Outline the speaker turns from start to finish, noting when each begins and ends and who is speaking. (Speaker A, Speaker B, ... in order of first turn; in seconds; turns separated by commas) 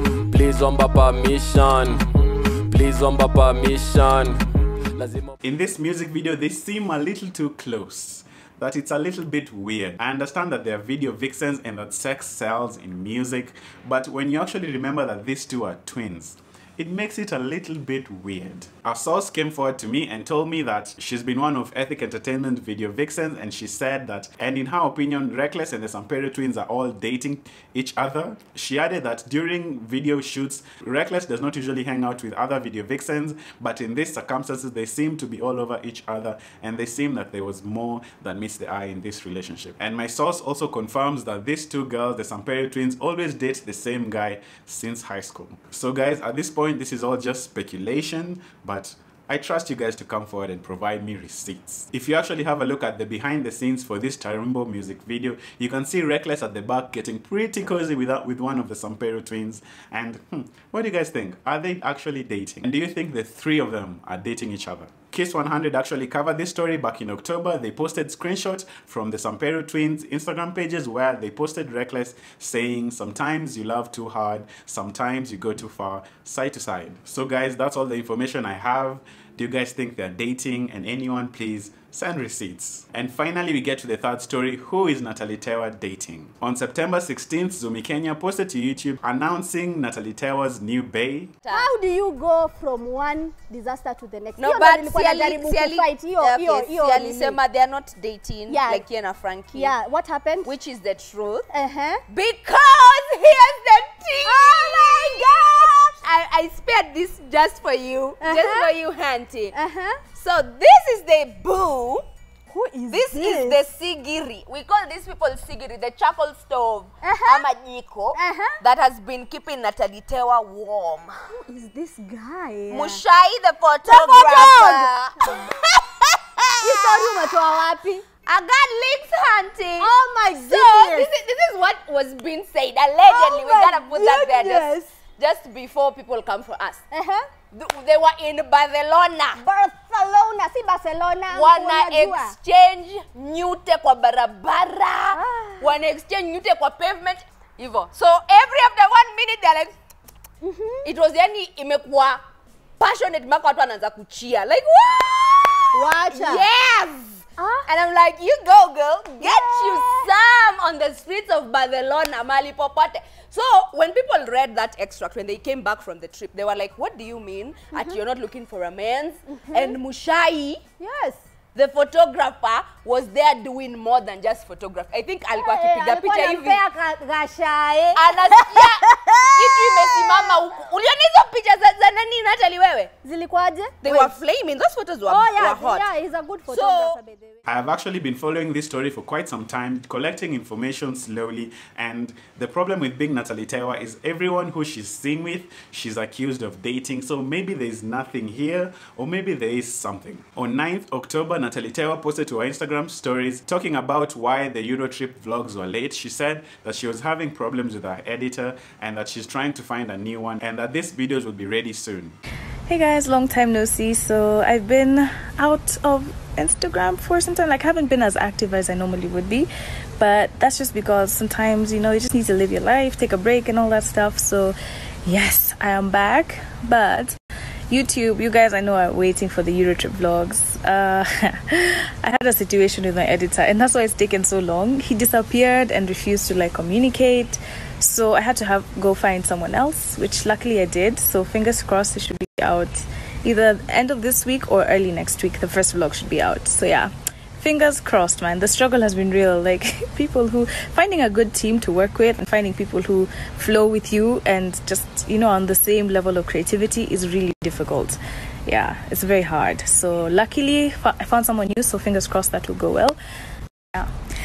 Speaker A: 0.3-2.0, Speaker A: 2.7-4.4, Speaker A: 4.9-5.3, Speaker B: 5.4-91.3, Speaker C: 91.4-91.7, Speaker D: 91.5-97.4, Speaker C: 94.4-99.7, Speaker D: 98.5-98.9, Speaker D: 99.5-100.5, Speaker C: 100.4-101.5, Speaker D: 101.5-102.0, Speaker C: 102.1-109.5, Speaker D: 104.2-106.0, Speaker D: 108.2-108.8, Speaker D: 109.5-110.0, Speaker C: 110.1-112.0, Speaker D: 112.5-113.6, Speaker C: 112.9-121.2, Speaker D: 117.0-117.5, Speaker D: 118.1-118.6, Speaker D: 121.4-123.0, Speaker C: 122.7-127.4, Speaker D: 123.8-125.5, Speaker D: 126.6-128.1, Speaker C: 128.2-129.9, Speaker D: 129.8-131.1, Speaker C: 130.4-136.8, Speaker D: 133.0-135.0, Speaker D: 136.9-137.3, Speaker C: 137.5-139.4, Speaker D: 139.4-142.4, Speaker C: 141.3-149.8, Speaker D: 145.1-145.8, Speaker D: 150.4-150.9, Speaker C: 150.8-152.2, Speaker C: 152.8-170.6, Speaker D: 155.7-156.5, Speaker D: 157.4-157.7, Speaker D: 159.2-160.1, Speaker D: 167.7-168.0, Speaker D: 169.3-169.8, Speaker D: 170.8-171.2, Speaker C: 171.5-176.6, Speaker D: 175.3-180.5, Speaker C: 177.9-182.9, Speaker D: 183.0-184.2, Speaker C: 183.8-185.9, Speaker D: 185.1-187.4, Speaker C: 186.5-187.0, Speaker B: 187.4-212.2, Speaker E: 212.7-227.2, Speaker E: 227.7-263.0